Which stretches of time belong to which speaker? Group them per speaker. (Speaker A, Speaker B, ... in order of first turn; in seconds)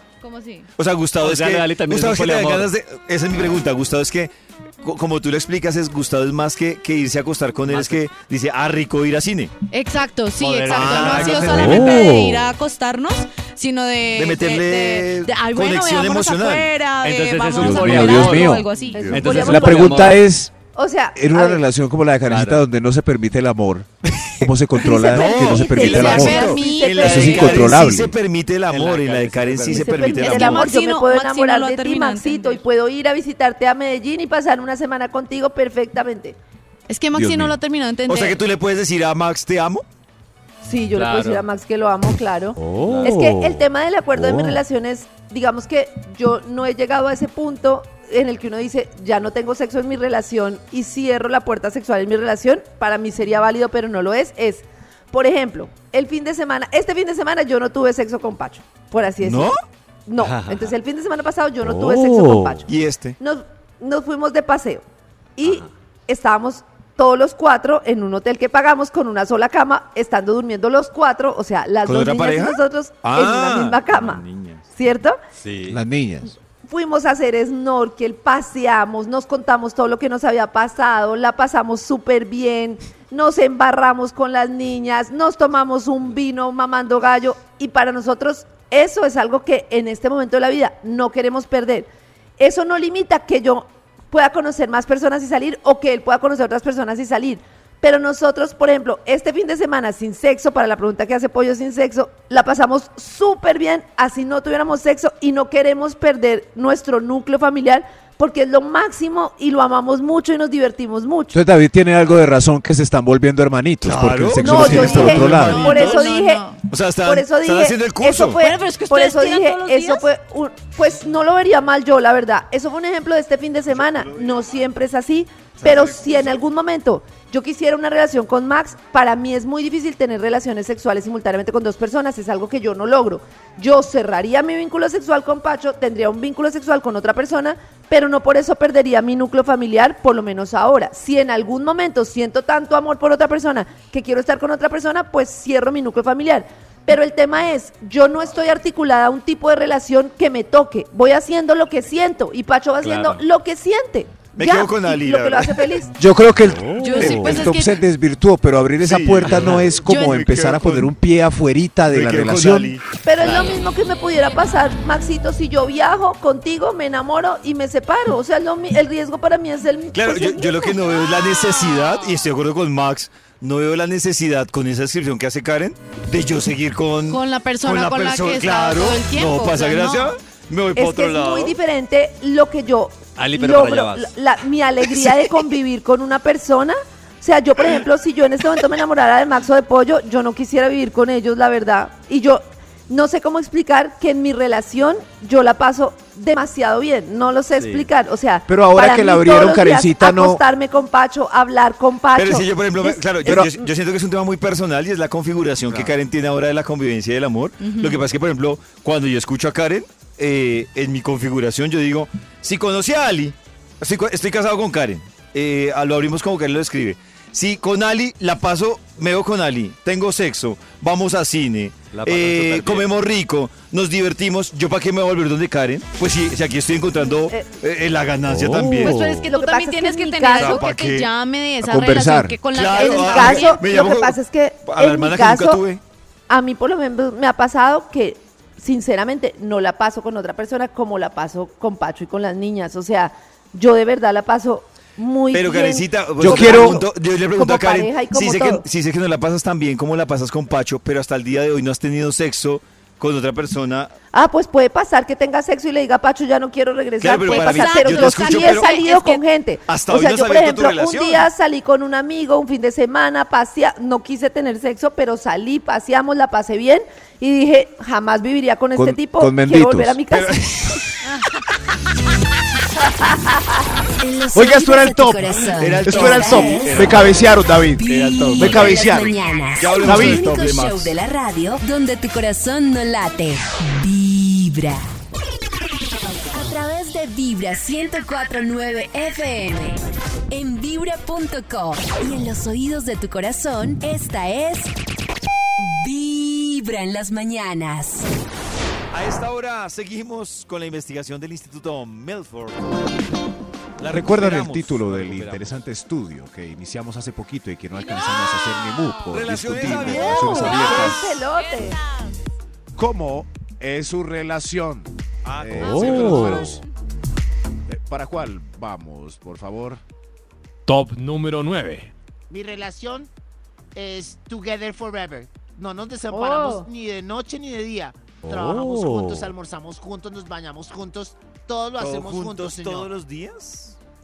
Speaker A: 0.2-0.7, 9.7-19.7, 25.1-27.6, 30.2-32.6, 36.9-38.4, 114.7-116.6, 118.3-120.1, 156.8-157.8, 159.8-160.3, 177.1-180.2, 207.6-208.0, 228.8-233.6, 257.3-259.2, 307.8-308.9, 309.9-312.2, 315.8-316.6
Speaker B: 0.8-9.5, 10.7-12.2, 14.1-16.7, 18.9-19.7, 25.6-30.7, 38.1-39.8, 59.2-59.5, 62.6-63.2, 71.8-74.6, 113.8-116.1, 116.6-118.4, 123.9-124.5, 125.6-126.3, 154.3-155.7, 158.8-160.9, 161.9-163.3, 169.9-181.6, 202.2-229.2, 230.3-231.1, 232.5-235.8, 245.3-253.9, 257.0-258.8, 259.7-261.3, 270.1-271.0, 275.5-280.9, 298.9-302.8, 303.8-305.3, 309.1-310.9, 315.2-316.6, 331.8-333.8
Speaker C: 1.2-2.7, 7.7-8.0, 10.4-12.1, 17.0-20.2, 22.3-22.6, 28.7-30.3, 40.9-41.5, 42.8-43.3, 60.2-60.7, 65.4-65.7, 75.4-75.8, 152.8-153.2, 183.2-184.1, 197.6-197.9, 221.9-222.9, 304.9-305.4
Speaker D: 11.6-12.4, 17.6-18.7, 19.2-20.5, 21.1-28.1, 37.1-37.5, 42.6-43.5, 44.2-44.6, 61.7-62.4, 75.7-76.3, 111.3-115.7, 156.0-162.8, 198.5-200.4, 203.2-203.5, 228.3-229.3, 231.6-232.4, 246.2-246.9, 268.7-270.0, 274.3-279.2, 279.8-280.3, 303.9-311.2, 312.7-316.6, 317.7-319.8
Speaker E: 18.9-20.1, 20.7-21.6, 24.8-27.7, 29.7-36.4, 40.6-59.5, 60.1-64.8, 65.4-75.2, 76.7-91.9, 92.4-111.4, 114.4-116.5, 117.0-155.9, 163.0-170.8, 180.7-203.7, 229.3-230.6, 232.7-235.6, 236.3-248.6, 254.1-270.5, 273.0-273.4, 309.9-311.8, 326.1-326.7
Speaker F: 274.0-277.0, 277.6-284.9, 286.3-289.8, 290.3-294.7, 295.6-298.1
Speaker G: 315.8-316.3, 320.6-321.9, 328.2-329.2
Speaker H: 322.3-323.1, 323.7-332.9